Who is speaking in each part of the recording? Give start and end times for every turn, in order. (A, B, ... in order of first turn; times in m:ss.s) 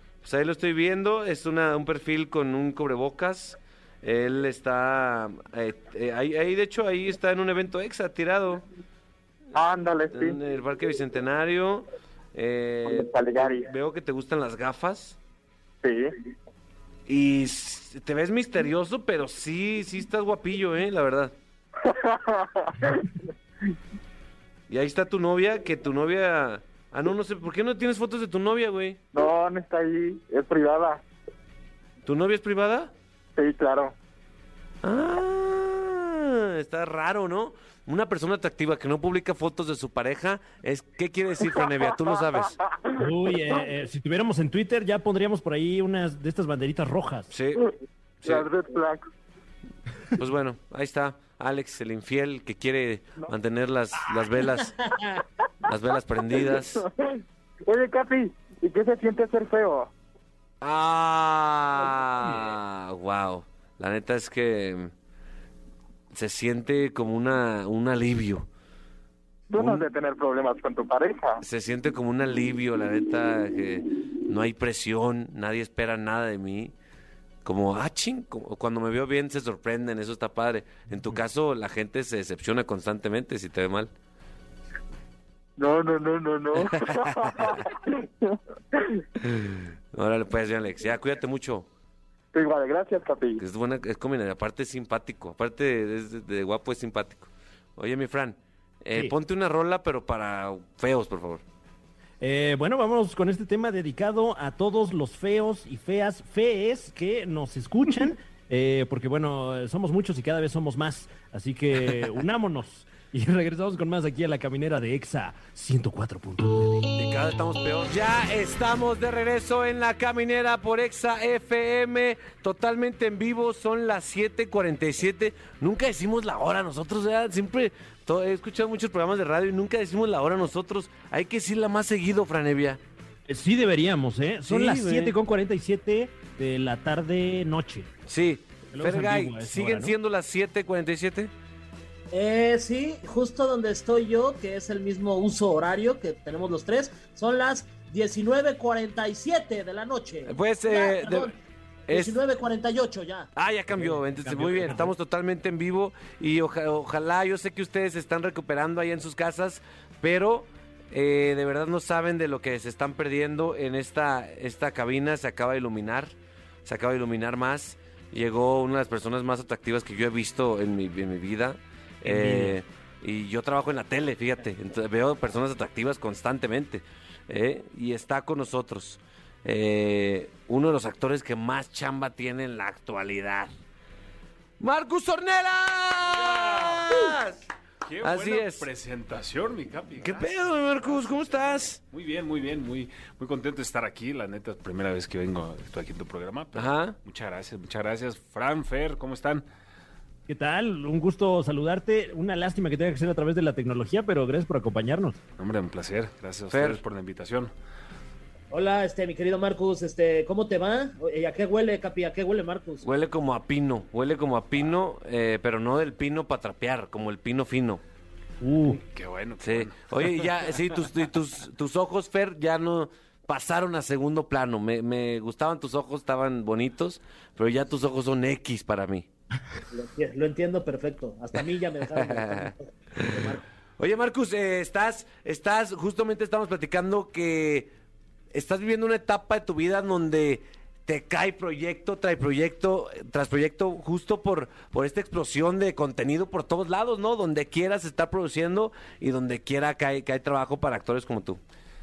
0:00.2-0:08.6 A
0:09.5-0:10.4 B
0:10.1-0:15.2 A
0:12.8-0:13.7 B
0:15.8-0:16.1 B
0:17.1-0:21.3 A
0:21.8-0:23.1 B
0:24.7-0:29.0 A
0:29.1-0:31.0 B
0:32.0-0:32.9 A
0:33.4-0:33.9 B
0:34.8-0:42.6 A
0:43.0-0:47.3 C
0:47.3-0:47.6 A
0:48.2-0:49.0 B
0:50.2-0:54.9 A
0:54.8-0:55.1 D
0:55.6-0:56.8 A
0:56.4-0:57.2 B
0:57.7-0:59.9 B
1:00.6-1:04.9 A
1:06.1-1:08.4 A
1:09.5-1:11.4 B
1:09.5-1:09.9 A
1:11.4-1:16.7 A
1:17.4-1:23.9 A
1:25.6-1:29.0 B
1:26.7-1:27.5 A
1:29.2-1:31.7 A
1:32.3-1:33.4 B
1:33.4-1:41.4 A
1:42.2-1:56.9 C
1:57.0-2:12.8 A
2:13.3-2:17.9 C
2:14.5-2:15.1 A
2:18.1-2:21.3 A
2:18.7-2:19.9 C
2:22.1-2:31.3 D
2:30.3-2:31.3 A
2:31.9-2:32.2 A
2:31.9-2:33.3 D
2:33.4-2:46.1 A
2:33.7-2:34.9 C
2:46.6-3:03.5 A
2:52.0-2:52.6 C
3:04.6-3:07.4 A
3:06.0-3:07.1 E
3:07.8-3:19.4 E
3:08.0-3:08.7 A
3:10.0-3:11.8 A
3:16.5-3:17.0 A
3:20.3-3:25.2 C
3:25.4-3:27.5 E
3:26.5-3:26.8 A
3:28.5-3:32.8 D
3:32.8-3:37.8 A
3:38.4-3:38.8 C
3:38.7-3:40.9 E
3:39.4-3:49.1 A
3:49.7-3:53.4 D
3:52.0-3:53.0 A
3:53.8-3:57.7 A
3:58.3-4:11.4 A